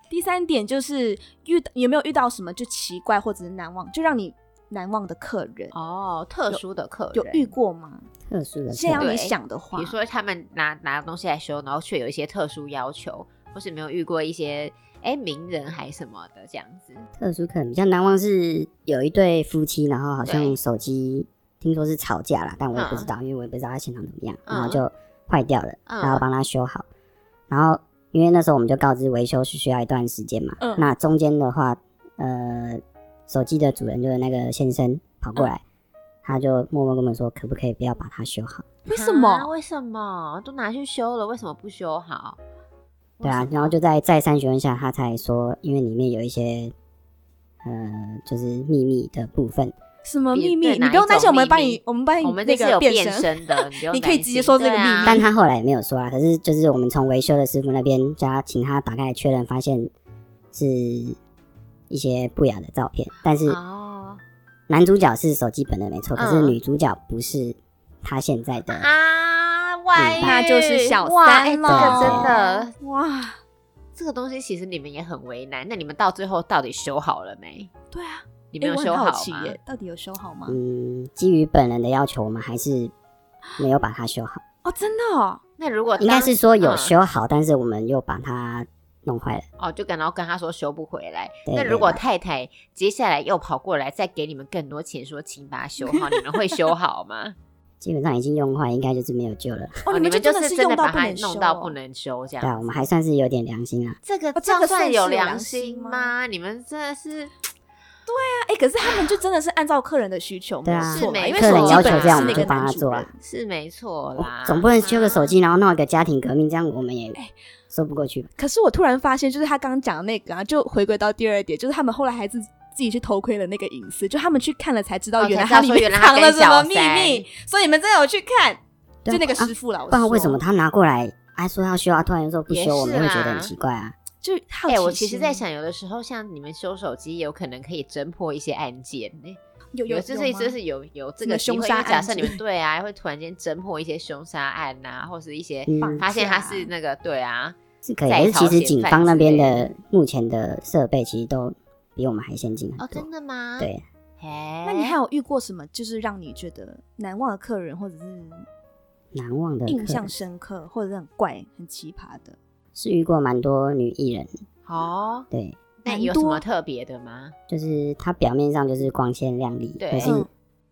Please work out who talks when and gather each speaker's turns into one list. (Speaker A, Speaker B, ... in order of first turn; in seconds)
Speaker A: 0.1-5.7, 7.1-8.1, 8.7-9.9, 30.6-30.9, 38.9-39.5, 50.0-55.3, 70.2-73.4, 77.9-80.6, 84.6-85.4, 99.9-101.8, 104.4-106.1, 108.1-113.2, 118.4-130.4, 134.2-135.4, 139.7-140.6, 141.2-142.4, 145.8-146.7, 154.6-158.5, 159.7-162.4, 165.9-166.4, 170.0-170.3
Speaker B: 5.7-7.5, 9.0-17.1, 20.3-20.6, 22.7-23.1, 24.5-24.8, 25.9-26.2, 38.9-42.4, 43.2-43.7, 50.3-55.2, 63.5-64.2, 66.2-66.6, 68.7-72.7, 74.0-77.7, 78.5-79.6, 85.6-87.0, 89.6-97.3, 99.9-102.7, 104.0-107.3, 110.9-112.5, 113.2-115.3, 125.2-127.3, 132.5-133.5, 134.7-149.7, 152.8-155.0, 164.7-165.3, 165.8-167.3, 169.8-170.2
Speaker C: 8.3-9.1, 17.2-26.9, 27.5-35.6, 36.2-38.7, 43.2-46.7, 47.6-49.8, 55.0-59.9, 60.5-61.2, 61.9-63.6, 64.7-68.9, 70.0-70.4, 71.7-72.3, 80.5-82.9, 83.6-84.4, 86.0-89.5, 91.5-92.0, 97.8-99.8, 102.4-104.0, 110.7-113.1, 114.2-117.2, 117.7-118.3, 129.1-133.9, 145.7-146.1, 147.8-153.1, 159.1-160.1, 162.8-164.3, 165.3-165.6, 167.5-170.3